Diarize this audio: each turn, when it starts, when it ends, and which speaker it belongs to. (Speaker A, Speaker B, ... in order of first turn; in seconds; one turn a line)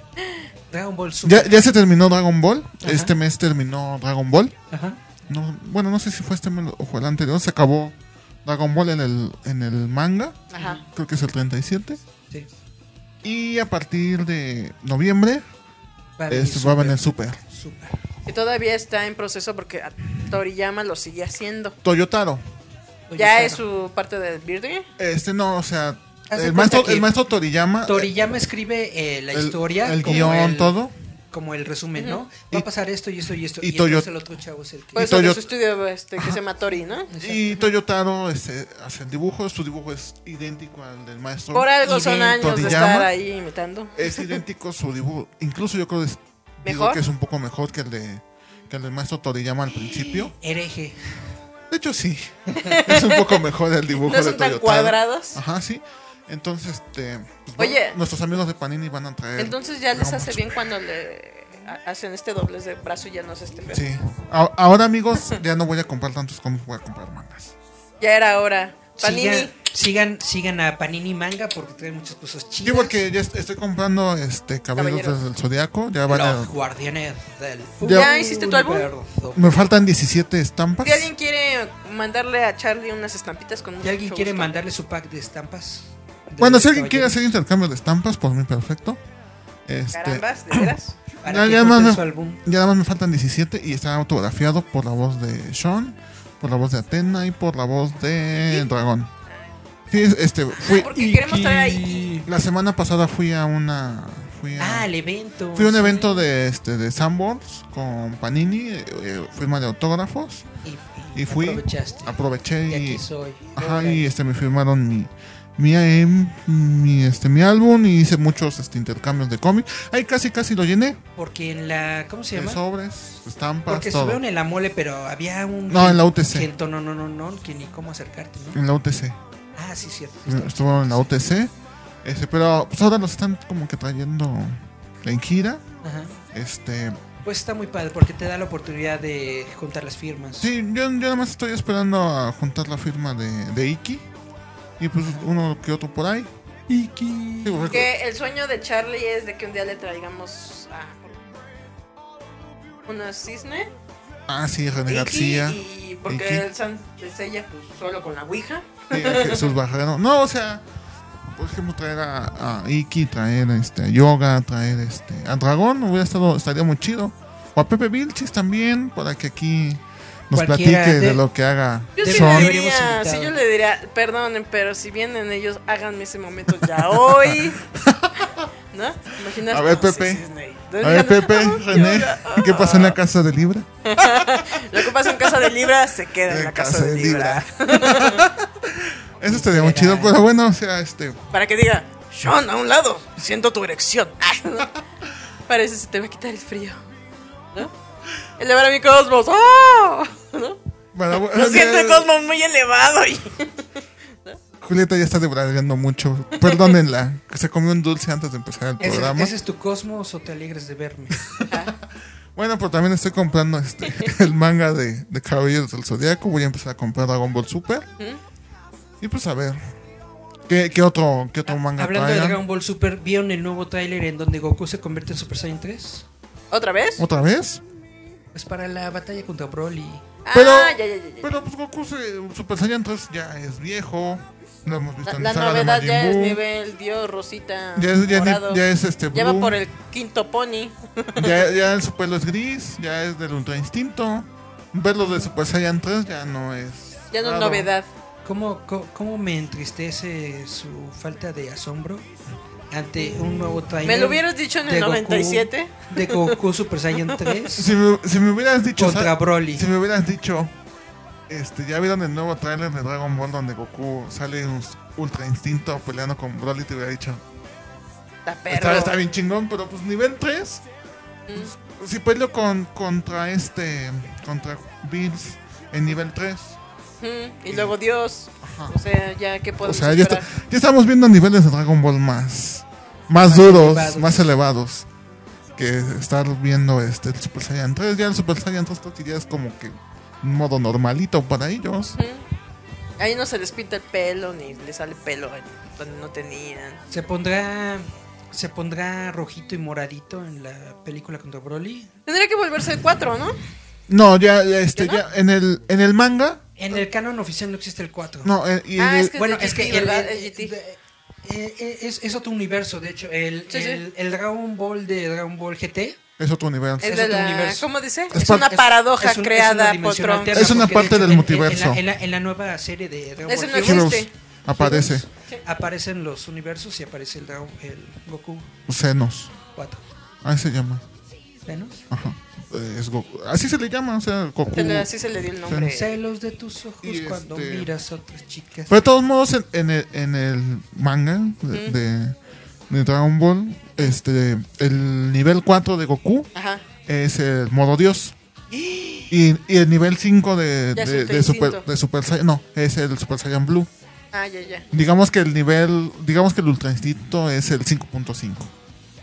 Speaker A: 0.7-1.6
Speaker B: 1.2-4.6
Speaker A: 2.8-3.1
Speaker A: 4.7-5.0
Speaker B: 5.3-12.0
Speaker C: 10.5-10.8
Speaker A: 10.6-10.8
Speaker B: 13.2-15.4
Speaker A: 16.2-18.0
Speaker B: 16.3-17.4
Speaker C: 18.3-21.8
Speaker B: 21.8-22.4
Speaker A: 23.1-23.6
Speaker C: 23.2-24.9
Speaker B: 25.0-28.1
Speaker A: 26.3-27.1
Speaker A: 27.9-30.8
Speaker B: 29.3-30.9
Speaker A: 31.3-35.1
Speaker C: 32.0-32.2
Speaker B: 33.6-34.1
Speaker B: 35.0-35.5
Speaker C: 35.0-37.1
Speaker A: 37.1-37.6
Speaker B: 37.2-43.1
Speaker C: 41.5-44.3
Speaker A: 42.1-42.9
Speaker B: 44.0-50.3
Speaker C: 46.6-47.0
Speaker A: 49.8-51.3
Speaker B: 51.7-60.6
Speaker C: 52.6-53.4
Speaker C: 54.0-55.4
Speaker C: 57.6-58.0
Speaker C: 59.4-63.8
Speaker B: 63.7-67.5
Speaker C: 68.0-69.5
Speaker A: 69.0-73.0
Speaker B: 72.6-76.5
Speaker C: 74.8-75.2
Speaker A: 76.1-79.5
Speaker B: 77.8-78.1
Speaker C: 77.9-78.9
Speaker B: 79.3-81.1
Speaker C: 80.8-84.6
Speaker A: 83.8-87.2
Speaker B: 86.4-89.0
Speaker B: 89.7-99.1
Speaker C: 89.9-91.0
Speaker A: 91.2-92.4
Speaker B: 99.9-100.9
Speaker C: 100.5-102.1
Speaker A: 100.9-102.3
Speaker B: 102.2-104.9
Speaker A: 104.6-106.2
Speaker B: 105.5-110.5
Speaker A: 110.6-114.1
Speaker B: 111.2-113.0
Speaker B: 113.6-121.0
Speaker A: 121.2-122.6
Speaker B: 122.3-124.2
Speaker A: 123.7-128.6
Speaker B: 125.7-126.5
Speaker B: 128.5-129.2
Speaker A: 129.6-131.1
Speaker B: 130.3-135.6
Speaker A: 135.8-136.2
Speaker B: 136.3-137.0
Speaker A: 137.2-140.5
Speaker B: 140.4-144.1
Speaker B: 144.8-146.3
Speaker A: 146.7-147.8
Speaker B: 147.4-147.9
Speaker C: 147.7-151.3
Speaker C: 152.9-153.7
Speaker B: 154.3-156.5
Speaker C: 154.9-159.5
Speaker B: 158.9-160.7
Speaker B: 161.3-172.6
Speaker A: 170.3-171.2
Speaker A: 172.0-173.4
Speaker C: 172.0-177.6
Speaker B: 176.6-178.5
Speaker C: 178.7-183.0
Speaker B: 179.3-180.2
Speaker B: 180.8-185.5
Speaker C: 183.9-188.3
Speaker B: 186.2-191.2
Speaker A: 189.3-190.2
Speaker C: 191.3-194.7
Speaker C: 195.5-196.8
Speaker C: 198.4-200.6
Speaker B: 200.9-202.1
Speaker C: 201.1-203.7
Speaker B: 204.6-209.3
Speaker C: 206.4-206.8
Speaker A: 208.8-211.2
Speaker B: 211.3-211.7
Speaker C: 211.5-211.8
Speaker B: 212.3-217.9
Speaker B: 219.0-219.6
Speaker B: 220.5-222.4
Speaker A: 221.5-226.1
Speaker C: 226.5-227.1
Speaker B: 227.0-227.6
Speaker A: 228.3-230.1
Speaker C: 230.2-231.3
Speaker B: 230.3-236.4
Speaker C: 235.1-238.6
Speaker B: 237.8-239.6
Speaker C: 239.1-241.4
Speaker B: 241.2-247.7
Speaker C: 247.1-247.9
Speaker A: 248.2-252.1
Speaker A: 252.7-257.7
Speaker C: 253.8-256.4
Speaker B: 257.5-260.5
Speaker A: 258.8-259.7
Speaker B: 261.3-267.2
Speaker C: 268.2-269.0
Speaker B: 268.5-270.6
Speaker C: 271.3-271.5
Speaker B: 271.3-276.6
Speaker C: 277.0-280.3
Speaker B: 277.5-277.8
Speaker B: 278.4-278.8
Speaker B: 279.6-284.9
Speaker A: 283.3-284.3
Speaker B: 285.6-292.0
Speaker C: 291.9-292.2
Speaker C: 293.0-296.8
Speaker A: 296.9-301.9
Speaker C: 302.1-303.4
Speaker B: 303.9-306.5
Speaker C: 304.8-305.0
Speaker A: 306.6-308.3
Speaker B: 308.2-309.4
Speaker C: 308.8-310.6
Speaker A: 309.1-316.0
Speaker C: 313.5-313.8
Speaker B: 316.2-317.1
Speaker C: 316.8-320.8
Speaker A: 316.8-324.0
Speaker B: 318.1-318.6
Speaker B: 320.3-321.8
Speaker C: 323.3-324.1
Speaker B: 323.5-325.1
Speaker A: 324.6-328.5
Speaker B: 328.7-329.4
Speaker A: 329.5-329.8
Speaker B: 330.2-330.9
Speaker A: 331.5-331.9
Speaker B: 331.9-334.9
Speaker C: 334.5-336.0
Speaker B: 335.4-335.8
Speaker A: 335.6-338.8
Speaker B: 336.8-337.7
Speaker B: 338.7-342.2
Speaker B: 342.7-346.3
Speaker C: 346.4-346.6
Speaker B: 346.9-348.1
Speaker B: 349.1-353.7
Speaker C: 350.8-351.6
Speaker C: 354.1-354.7
Speaker B: 354.7-358.5